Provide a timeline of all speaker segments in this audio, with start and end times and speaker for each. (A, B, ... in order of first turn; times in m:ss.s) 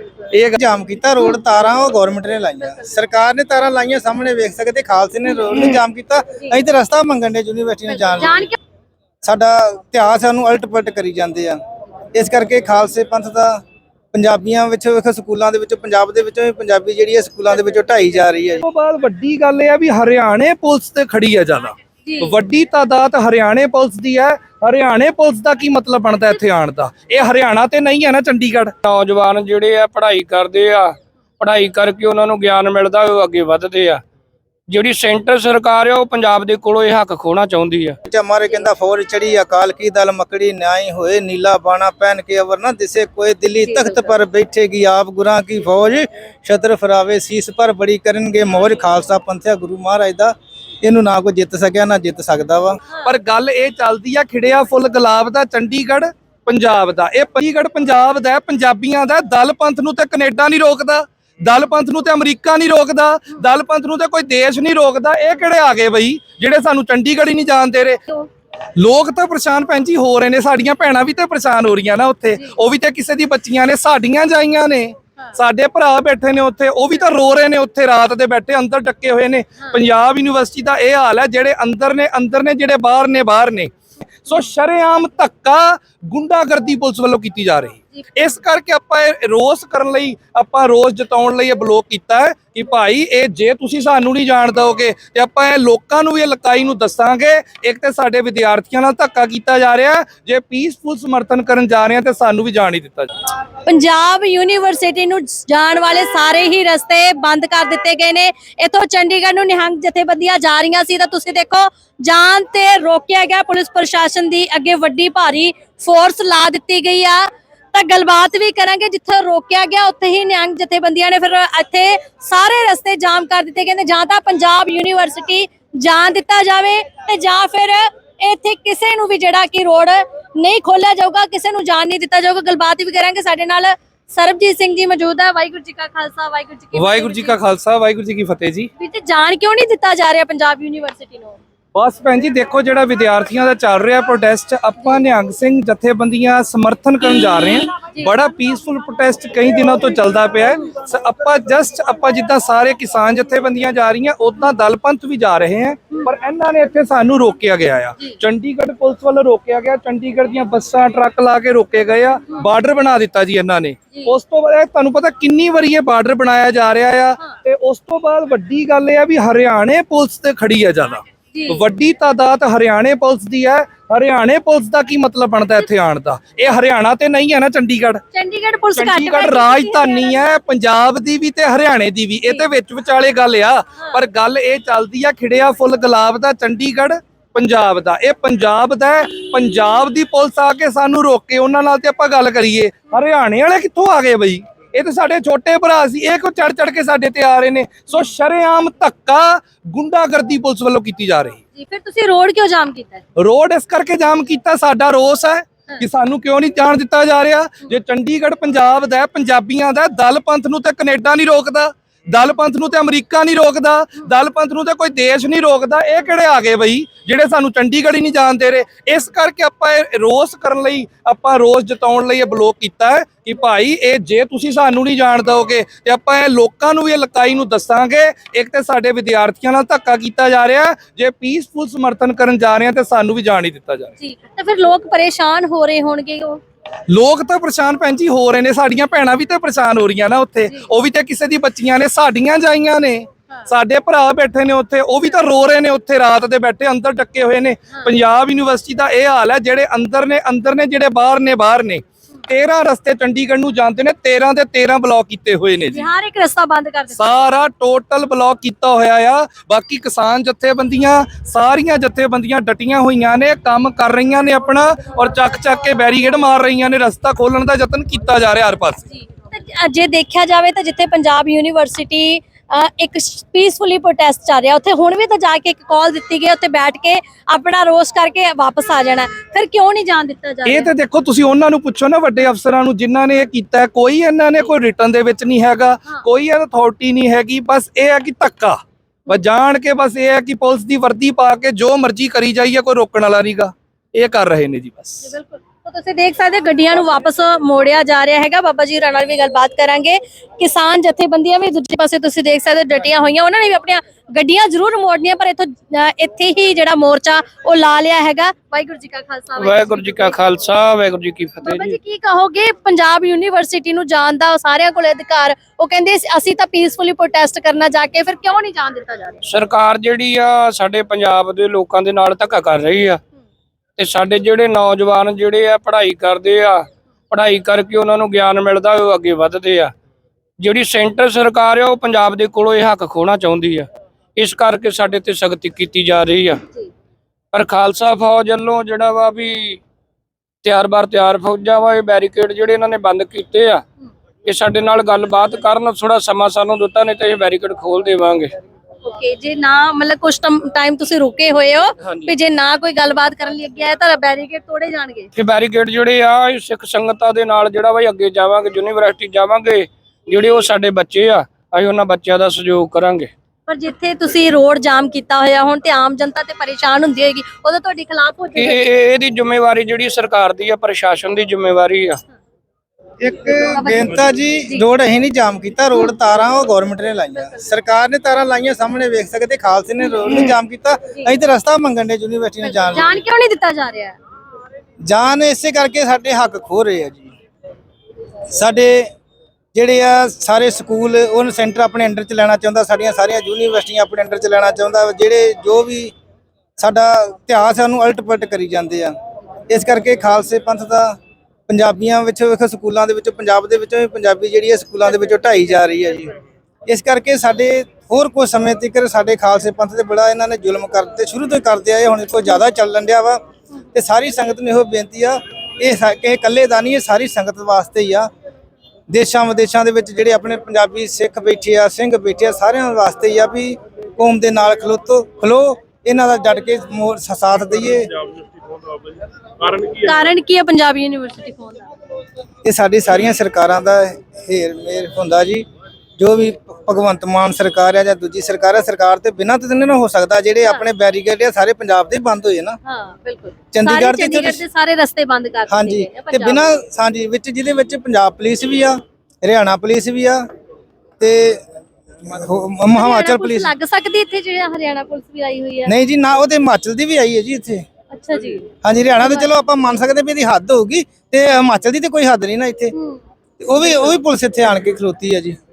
0:00.3-0:00.6 A
0:00.6-0:08.4 B
0:07.9-0:08.6 C
0:09.2-0:11.6 B
0:12.1-0:13.6 B
0:14.1-0:18.6 B
0:18.6-0:28.7 A
0:22.0-0:22.4 C
0:28.8-0:34.0 D
0:34.7-0:38.0 D
0:38.0-0:52.8 B
0:43.6-0:44.1 C
0:53.0-1:08.0 A
1:08.8-1:23.7 A
1:24.2-1:43.1 A
1:43.6-2:17.4 C
2:16.7-2:18.7 A
2:18.8-2:21.4 C
2:21.7-2:58.0 A
2:27.8-2:28.1 C
2:51.3-2:51.6 C
2:58.1-3:00.3 C
2:58.8-3:21.4 A
3:21.5-3:23.0 C
3:23.2-3:54.0 A
3:54.0-3:56.4 C
3:56.9-4:15.9 A
4:15.7-4:17.3 C
4:16.9-4:28.8 A
4:28.9-4:40.7 C
4:40.5-4:55.1 A
4:55.0-5:10.2 C
5:09.4-5:11.8 D
5:11.4-5:19.2 C
5:19.2-5:23.0 D
5:23.8-5:29.7 D
5:30.4-5:36.4 D
5:37.3-5:39.6 D
5:40.4-5:43.6 D
5:44.2-5:48.4 D
5:48.8-5:55.1 C
5:55.1-6:03.1 D
6:03.5-6:08.6 C
6:08.4-6:12.0 D
6:13.0-6:23.0 B
6:13.6-6:14.6 C
6:22.4-6:24.0 C
6:24.9-6:27.1 B
6:28.3-6:28.9 B
6:29.5-6:35.9 B
6:36.6-6:38.9 B
6:39.5-6:41.0 B
6:41.5-6:46.1 B
6:46.7-6:53.2 B
6:53.7-6:58.1 B
6:58.9-7:07.9 B
7:09.6-7:11.7 C
7:12.4-7:15.4 B
7:16.0-7:22.6 B
7:22.6-7:26.5 C
7:23.5-7:24.4 B
7:25.5-7:30.2 B
7:31.0-7:31.5 B
7:32.0-7:33.5 B
7:32.7-7:35.7 C
7:35.6-7:37.6 B
7:37.9-7:38.5 C
7:38.6-7:42.7 B
7:39.0-7:39.3 C
7:42.7-7:43.0 C
7:43.4-7:45.4 B